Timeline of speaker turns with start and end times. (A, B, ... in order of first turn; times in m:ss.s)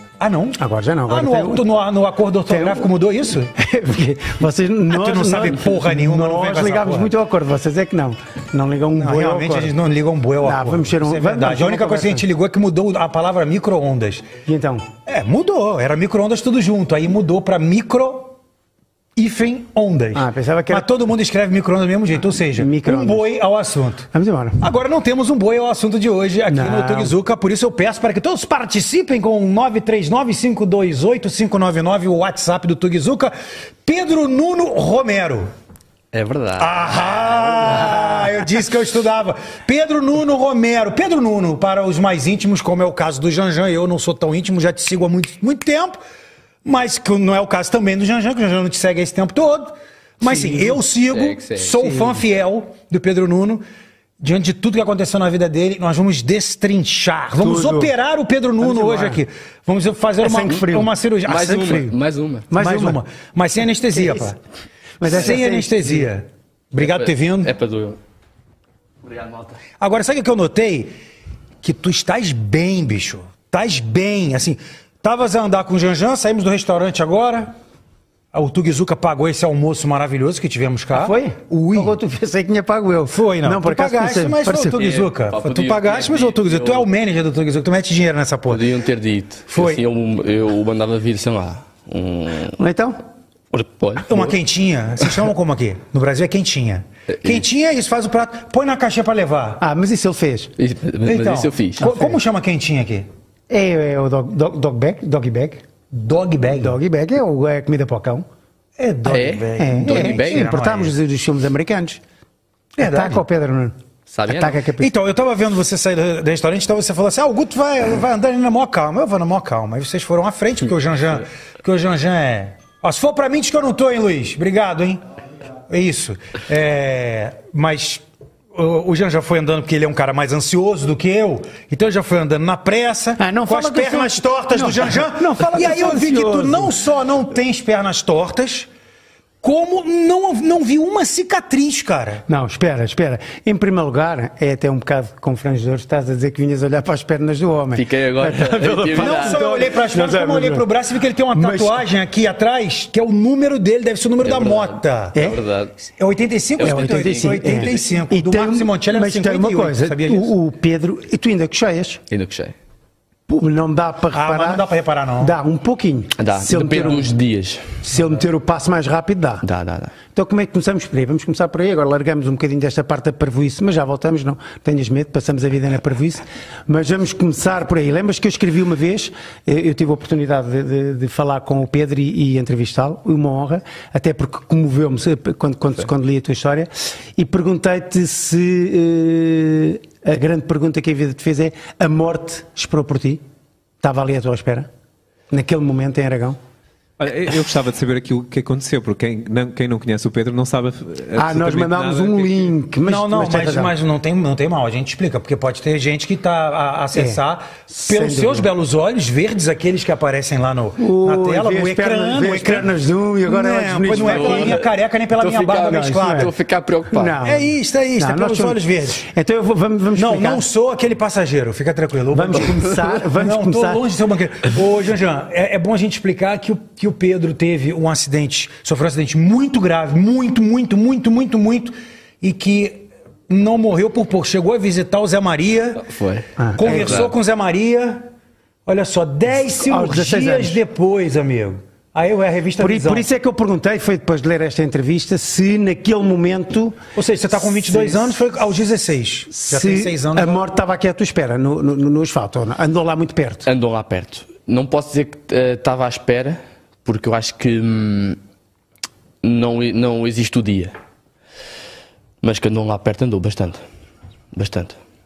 0:00.2-0:03.5 A
0:00.6-0:01.6 B
0:02.5-0:02.9 B
0:03.5-0:09.7 B
0:04.9-0:07.1 A
0:08.9-0:14.3 A
0:10.4-0:12.3 B
0:14.4-0:14.9 B
0:15.0-0:18.4 A
0:19.2-0:24.1 A
0:20.1-0:20.9 B
0:22.6-0:23.3 B
0:24.1-0:24.7 B
0:24.6-0:33.3 A
0:26.5-0:27.1 B
0:33.8-0:35.5 A
0:36.1-0:36.8 C
0:36.6-0:46.0 A
0:46.6-0:53.6 A
0:50.2-0:50.8 B
0:51.1-0:51.8 C
0:51.8-0:52.1 B
0:54.2-1:02.0 A
0:57.4-0:57.9 B
0:58.6-0:59.2 B
1:00.2-1:00.9 B
1:01.2-1:02.5 C
1:02.5-1:03.0 B
1:02.5-1:04.4 A
1:03.9-1:04.3 B
1:05.0-1:06.0 B
1:05.0-1:07.5 A
1:06.8-1:08.0 C
1:09.0-1:09.6 C
1:09.8-1:10.9 A
1:11.6-1:17.5 A
1:18.3-1:22.0 A
1:20.9-1:24.9 B
1:23.1-1:28.6 A
1:24.7-1:26.8 C
1:28.5-1:32.6 C
1:29.5-1:29.8 A
1:32.6-1:33.0 B
1:33.5-1:34.3 C
1:34.0-1:39.6 A
1:37.1-1:37.4 C
1:39.6-1:40.5 B
1:40.6-1:41.9 C
1:41.0-1:43.1 A
1:41.8-1:42.2 B
1:43.5-1:45.6 B
1:45.9-1:46.8 A
1:46.5-1:48.3 B
1:48.8-1:50.9 A
1:49.0-1:50.5 C
1:49.6-1:52.0 B
1:52.8-1:53.2 A
1:52.8-1:53.7 B
1:54.1-1:54.6 C
1:54.3-1:54.9 B
1:54.8-2:05.0 A
2:05.7-2:08.0 A
2:08.5-2:18.7 A
2:13.2-2:16.7 B
2:19.4-2:22.2 A
2:22.3-2:30.7 B
2:27.7-2:29.4 C
2:29.0-2:35.2 A
2:31.3-2:31.8 B
2:34.2-2:35.7 C
2:36.0-2:40.3 A
2:36.6-2:37.7 C
2:36.6-2:42.0 B
2:42.1-2:42.5 C
2:43.3-2:44.6 B
2:44.1-2:45.3 A
2:45.2-2:47.1 B
2:46.2-2:47.8 C
2:47.8-2:49.4 B
2:49.4-2:49.9 C
2:50.1-3:13.2 B
3:13.8-3:14.7 B
3:15.3-3:16.4 B
3:17.0-3:22.5 D
3:21.1-3:23.7 B
3:22.8-3:32.7 A
3:26.9-3:28.5 B
3:30.8-3:34.6 B
3:33.2-3:36.3 A
3:34.0-3:34.7 C
3:35.2-3:37.1 C
3:35.5-3:36.3 B
3:36.9-3:40.4 B
3:37.2-3:39.0 A
3:40.0-3:55.8 A
3:42.1-3:43.8 B
3:55.8-3:57.1 C
3:56.4-3:57.1 B
3:56.6-3:58.1 A
3:58.6-4:03.1 A
3:59.5-4:00.6 B
4:02.6-4:06.8 B
4:06.9-4:10.4 A
4:07.6-4:08.1 B
4:09.3-4:13.5 B
4:13.4-4:18.2 C
4:19.2-4:20.7 C
4:22.2-4:23.6 C
4:24.3-4:24.8 C